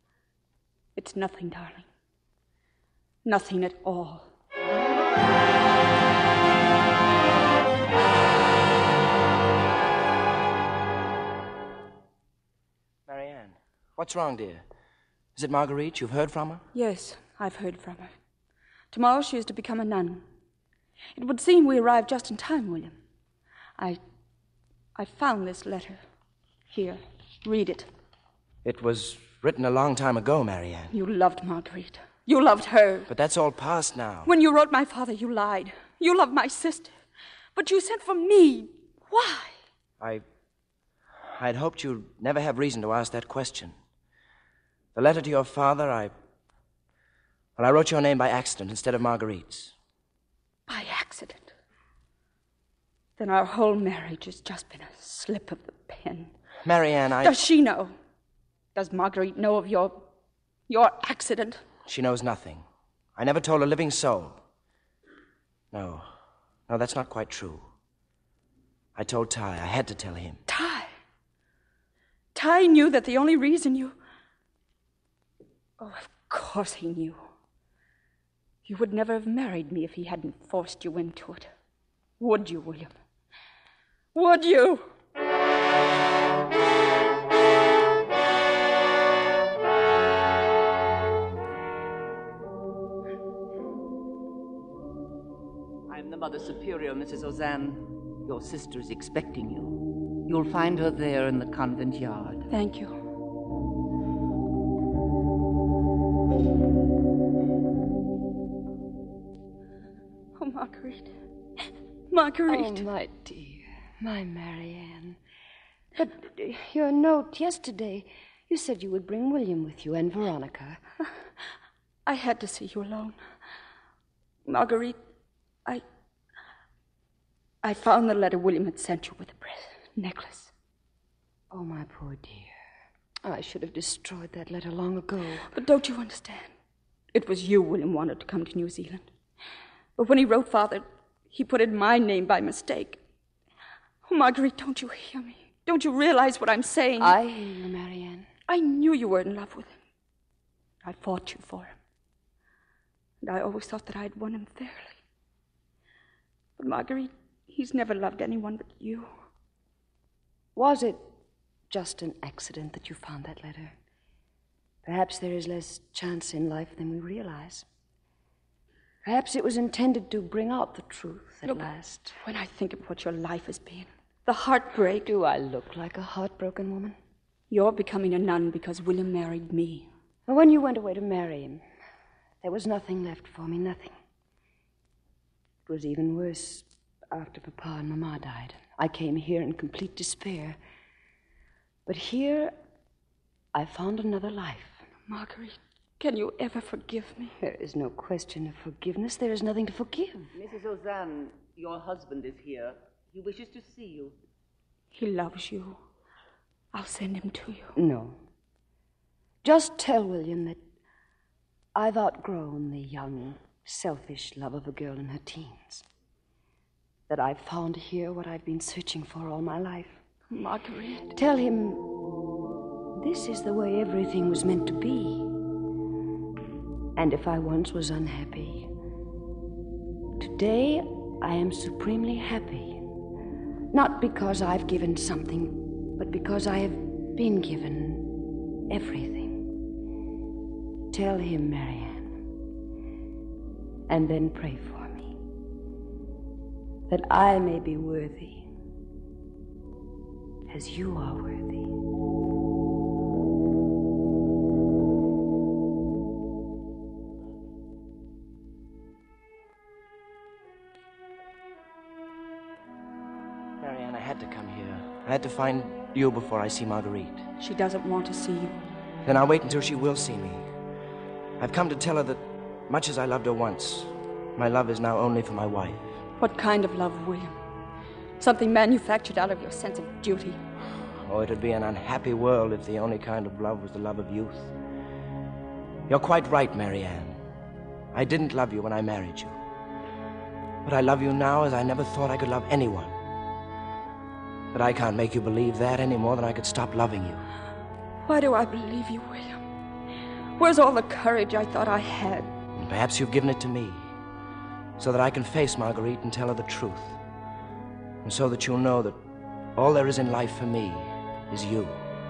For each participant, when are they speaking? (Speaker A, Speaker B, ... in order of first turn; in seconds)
Speaker A: 1.0-1.9, 3.2-4.3, 16.7-18.1, 18.9-20.2, 21.1-23.0, 25.0-26.0, 26.7-27.9, 30.9-33.1, 34.3-36.9, 37.5-39.6, 50.7-51.5, 53.2-56.3, 57.2-58.0, 58.8-60.1, 60.7-61.6, 70.5-70.9, 72.3-74.0, 75.8-77.2, 78.7-81.5, 82.2-82.9, 84.1-84.9, 102.5-103.0, 110.4-111.1, 112.1-112.8, 122.1-123.2, 124.5-125.0, 127.6-130.5, 135.5-136.5, 137.1-139.1, 140.0-143.0, 144.1-147.2, 148.5-149.8, 150.8-151.8, 153.2-154.9, 156.6-159.1, 172.2-175.1, 177.5-179.9, 195.1-197.3, 204.9-205.8, 206.7-207.7, 220.3-221.1, 267.4-268.6, 276.2-277.4, 278.2-280.4, 298.1-299.4, 300.4-302.3
Speaker B: 13.1-14.6, 15.4-16.6, 28.6-30.9, 33.1-34.3, 41.4-43.8, 45.0-46.1, 47.6-49.7, 56.6-57.4, 61.9-62.6, 63.2-64.4, 65.7-66.1, 66.7-67.7, 69.0-70.4, 263.6-267.2, 269.1-270.5, 271.4-275.9, 281.1-284.5, 285.9-287.2, 287.9-289.4, 290.6-293.0, 294.5-297.2, 302.6-303.9, 304.8-307.0, 308.0-309.0, 309.6-311.8
Speaker C: 95.9-102.4, 200.3-204.2
Speaker D: 112.5-115.2, 116.0-120.8, 131.5-132.5, 133.2-135.5, 147.0-148.3, 160.6-161.1, 161.7-163.8, 164.8-167.7, 169.0-172.2, 175.0-177.0, 180.3-181.6, 182.4-183.9, 185.7-190.6, 191.9-192.5, 193.5-194.8, 197.4-200.3, 207.8-208.2, 209.4-210.6, 211.8-215.8, 217.1-220.0, 221.1-222.0, 223.0-225.4, 227.0-228.7, 230.2-232.8, 233.7-239.6, 240.9-242.2, 243.9-245.2, 246.9-248.5, 250.5-251.7